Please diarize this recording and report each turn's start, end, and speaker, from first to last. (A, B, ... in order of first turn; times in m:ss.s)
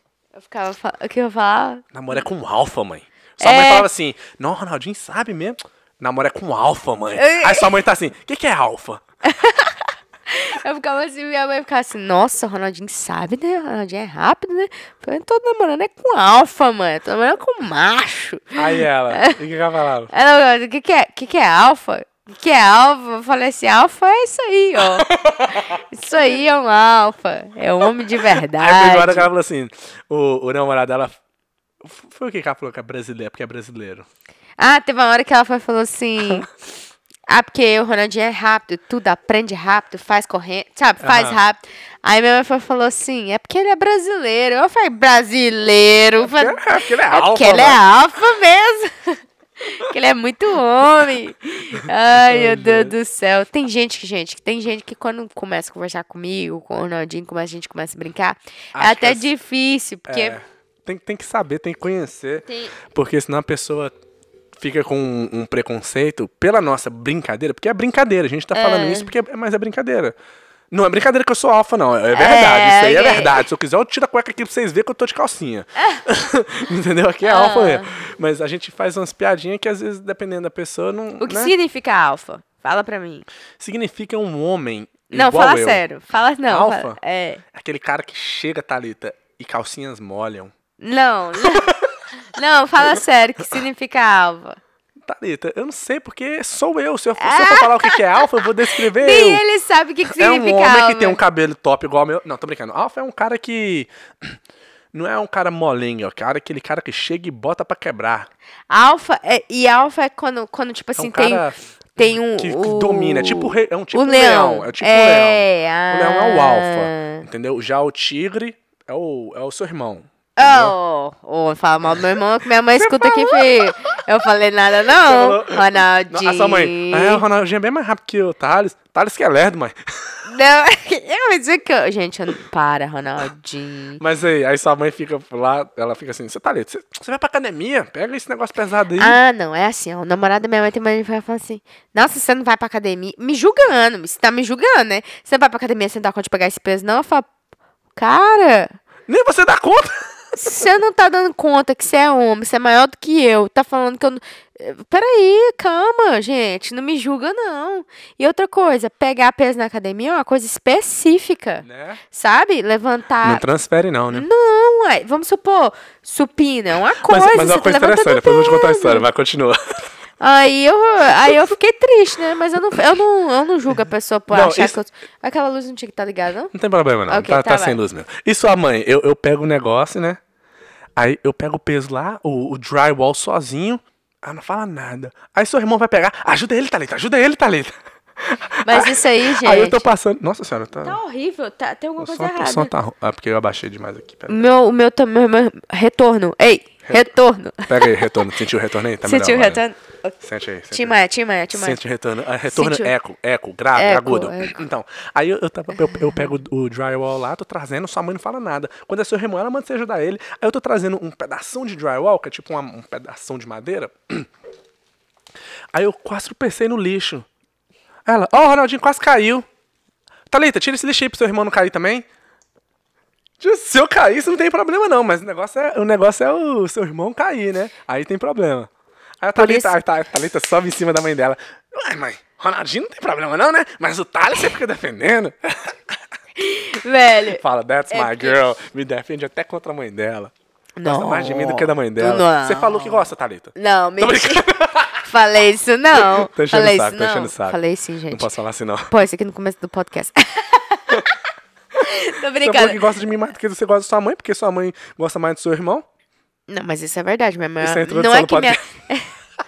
0:00.3-0:02.2 A
0:01.9-0:09.0 B
0:03.4-0:03.9 A
0:07.1-0:07.8 A
0:09.2-0:19.3 A
0:18.6-0:20.1 B
0:20.1-0:29.3 A
0:24.8-0:25.8 B
0:28.2-0:31.1 B
0:31.8-0:34.1 B
0:34.6-0:36.5 A
0:36.2-0:36.5 B
0:37.3-1:00.4 A
0:41.0-0:41.4 B
0:46.2-0:47.8 B
0:52.1-0:52.9 B
0:58.7-0:59.3 B
1:00.0-1:04.0 B
1:02.4-1:02.7 A
1:04.6-1:10.1 B
1:08.5-1:09.1 A
1:10.7-1:21.5 B
1:12.1-1:13.4 A
1:17.2-1:17.9 A
1:21.2-1:23.2 A
1:23.6-1:25.8 B
1:25.1-1:27.4 A
1:26.5-1:27.0 B
1:27.5-1:30.5 B
1:30.8-1:31.7 A
1:31.4-1:31.9 B
1:32.3-1:34.6 A
1:35.0-1:39.4 B
1:37.2-1:38.2 A
1:38.8-1:41.2 A
1:40.1-1:44.4 B
1:44.9-1:48.3 B
1:48.7-1:51.4 A
1:51.0-1:51.6 B
1:52.0-1:57.2 A
1:52.2-2:00.8 B
2:00.4-2:07.2 A
2:02.8-2:03.8 B
2:04.8-2:10.2 B
2:10.2-2:14.0 A
2:14.0-2:19.2 B
2:19.0-2:27.3 A
2:27.9-2:28.8 A
2:29.1-2:30.4 B
2:30.4-2:43.4 A
2:41.6-2:42.0 B
2:43.2-2:44.2 B
2:44.1-2:49.0 A
2:47.1-2:49.6 B
2:50.2-2:56.5 A
2:54.3-2:54.8 B
2:56.5-3:00.2 B
2:57.1-2:57.8 A
3:01.0-3:11.0 B
3:08.6-3:09.8 A
3:10.8-3:12.7 A
3:12.0-3:14.5 B
3:14.3-3:18.3 A
3:17.7-3:19.6 B
3:19.0-3:20.2 A
3:20.2-3:21.0 B
3:20.7-3:21.8 A
3:21.5-3:34.3 B
3:22.5-3:22.9 A
3:23.7-3:24.6 A
3:26.0-3:26.2 A
3:35.7-3:37.3 B
3:38.0-3:39.4 B
3:40.3-3:42.0 B
3:43.4-3:48.7 B
3:49.2-3:56.0 B
3:49.4-3:49.7 A
3:56.4-3:58.4 A
3:57.3-4:00.3 B
4:00.8-4:04.4 A
4:00.8-4:05.1 B
4:05.0-4:08.3 A
4:05.9-4:07.6 B
4:08.1-4:08.9 B
4:08.9-4:11.1 A
4:11.8-4:12.8 A
4:12.4-4:15.8 B
4:16.5-4:19.1 A
4:17.6-4:18.6 B